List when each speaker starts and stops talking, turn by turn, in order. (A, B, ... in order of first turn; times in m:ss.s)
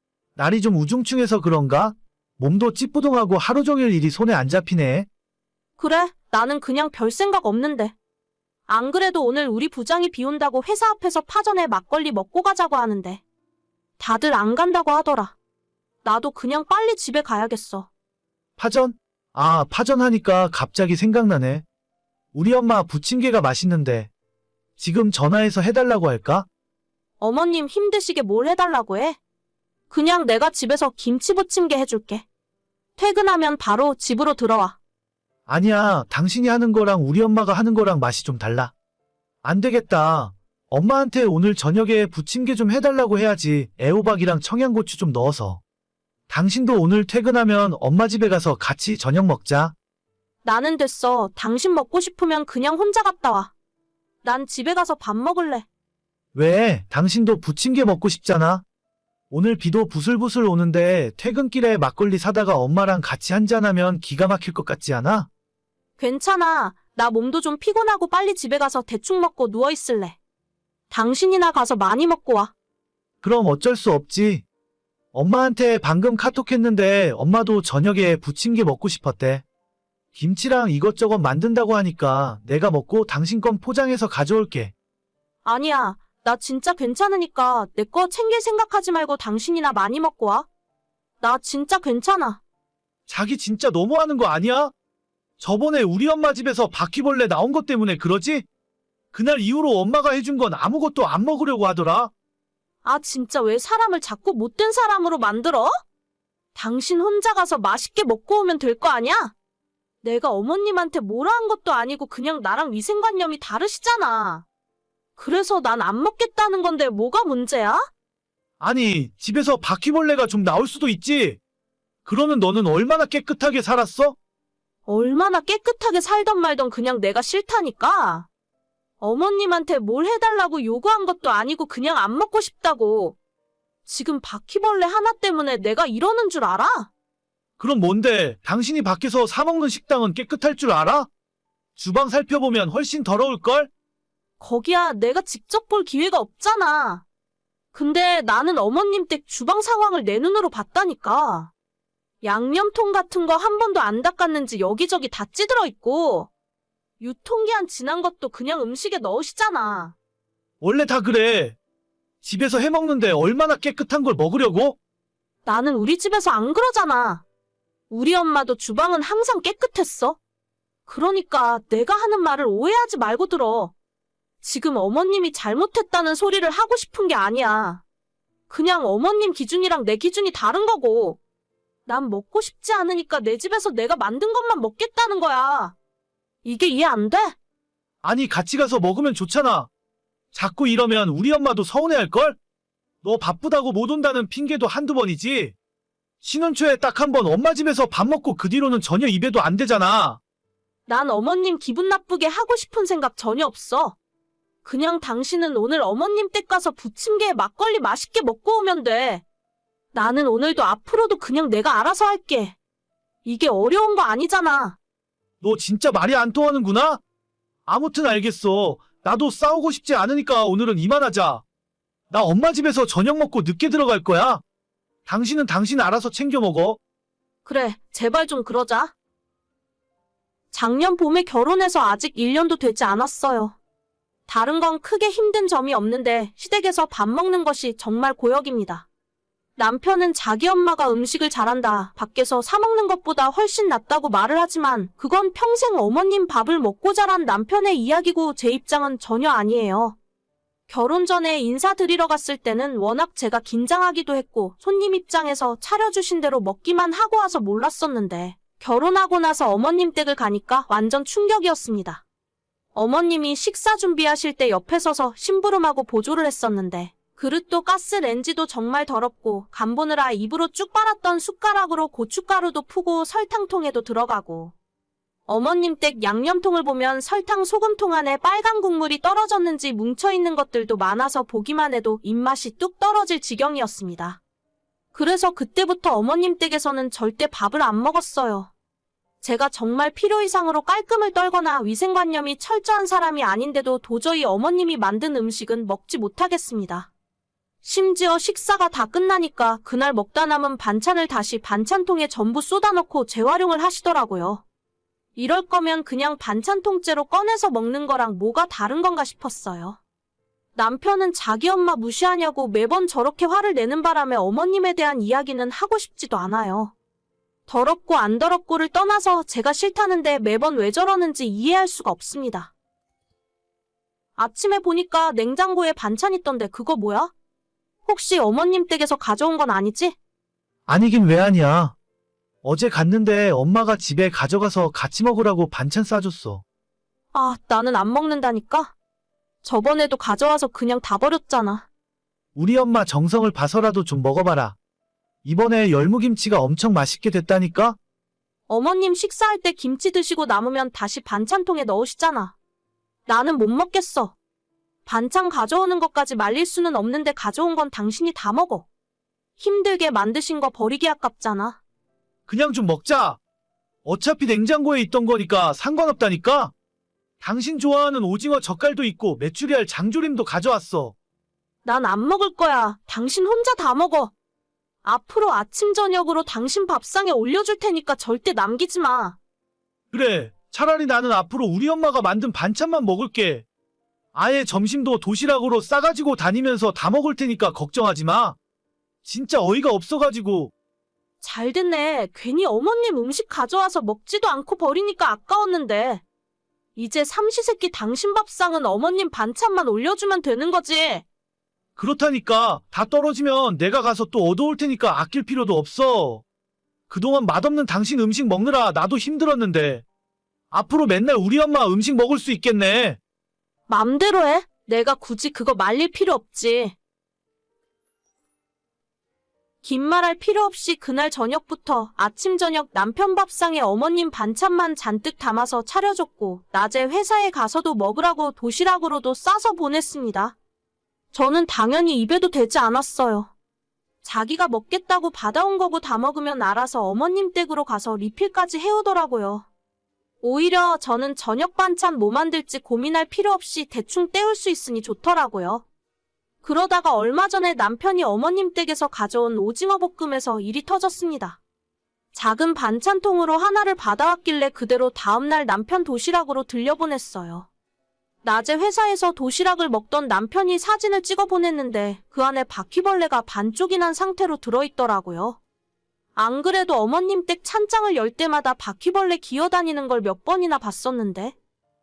0:00.4-0:05.1 A
0:05.8-0:08.0 B
0:08.7-0:13.2 B
0:14.0-0:15.4 B
0:16.0-0:17.9 B
0:18.6-0:21.6 A
0:22.3-0:24.1 A
0:24.8-0:26.5 A
0:27.2-0:29.2 B
0:29.9-0:32.2 B
0:33.0-0:34.8 B
0:35.5-0:38.7 A
0:39.4-0:45.6 A
0:46.3-0:49.8 A
0:50.4-0:53.5 B
0:54.2-0:55.7 B
0:56.3-0:58.6 A
0:59.3-1:05.3 A
1:06.0-1:10.2 B
1:10.9-1:12.5 B
1:13.2-1:14.4 A
1:15.1-1:19.4 A
1:20.1-1:24.7 A
1:25.4-1:30.5 B
1:31.2-1:32.4 B
1:33.1-1:34.7 A
1:35.4-1:38.5 A
1:39.1-1:42.1 A
1:42.8-1:45.8 B
1:46.6-1:49.3 B
1:50.0-1:54.4 B
1:55.2-1:57.9 B
1:58.6-2:01.4 A
2:02.0-2:04.2 A
2:04.9-2:08.3 B
2:09.0-2:13.2 B
2:13.9-2:16.9 B
2:17.6-2:21.1 A
2:21.8-2:23.7 A
2:24.4-2:27.0 B
2:27.7-2:31.5 B
2:32.2-2:36.3 B
2:37.0-2:40.0 B
2:40.6-2:41.6 A
2:42.2-2:44.8 A
2:45.4-2:47.2 B
2:47.9-2:50.2 B
2:50.9-2:53.7 B
2:54.4-2:57.8 B
2:58.5-3:01.2 B
3:01.9-3:05.8 B
3:06.4-3:07.4 B
3:08.0-3:09.7 A
3:10.3-3:12.4 A
3:13.0-3:15.6 A
3:16.2-3:20.2 A
3:20.9-3:24.0 B
3:24.6-3:29.2 B
3:29.9-3:32.6 B
3:33.2-3:34.8 B
3:35.4-3:37.0 A
3:37.7-3:41.4 A
3:42.1-3:44.4 A
3:45.1-3:46.8 A
3:47.4-3:48.9 B
3:50.5-3:53.6 B
3:54.3-3:58.9 B
3:59.6-4:10.0 B
4:10.7-4:22.0 B
4:22.8-4:34.5 B
4:35.3-4:44.2 B
4:44.9-4:48.5 B
4:49.2-4:56.9 B
4:57.6-5:04.4 B
5:05.2-5:09.8 B
5:10.6-5:16.7 B
5:17.5-5:22.5 B
5:24.2-5:27.1 B
5:27.8-5:30.0 B
5:30.7-5:31.8 A
5:32.4-5:36.4 A
5:37.1-5:38.7 B
5:39.4-5:41.7 B
5:42.4-5:44.6 A
5:45.2-5:47.8 A
5:48.5-5:52.4 B
5:53.1-5:54.2 B
5:54.9-5:58.7 B
5:59.4-6:01.6 B
6:02.3-6:03.2 A
6:03.8-6:06.5 A
6:07.2-6:11.0 A
6:11.6-6:14.1 B
6:14.8-6:19.2 B
6:19.9-6:23.5 A
6:24.2-6:28.4 A
6:29.0-6:30.5 A
6:31.2-6:36.0 B
6:36.8-6:41.0 B
6:41.8-6:46.2 A
6:46.9-6:49.8 A
6:50.5-6:53.0 A
6:53.7-6:56.8 B
6:59.6-7:10.4 B
7:11.1-7:13.3 B
7:14.0-7:19.5 B
7:20.2-7:25.6 B
7:26.4-7:31.4 B
7:32.1-7:37.5 B
7:38.2-7:45.4 B
7:46.2-7:51.4 B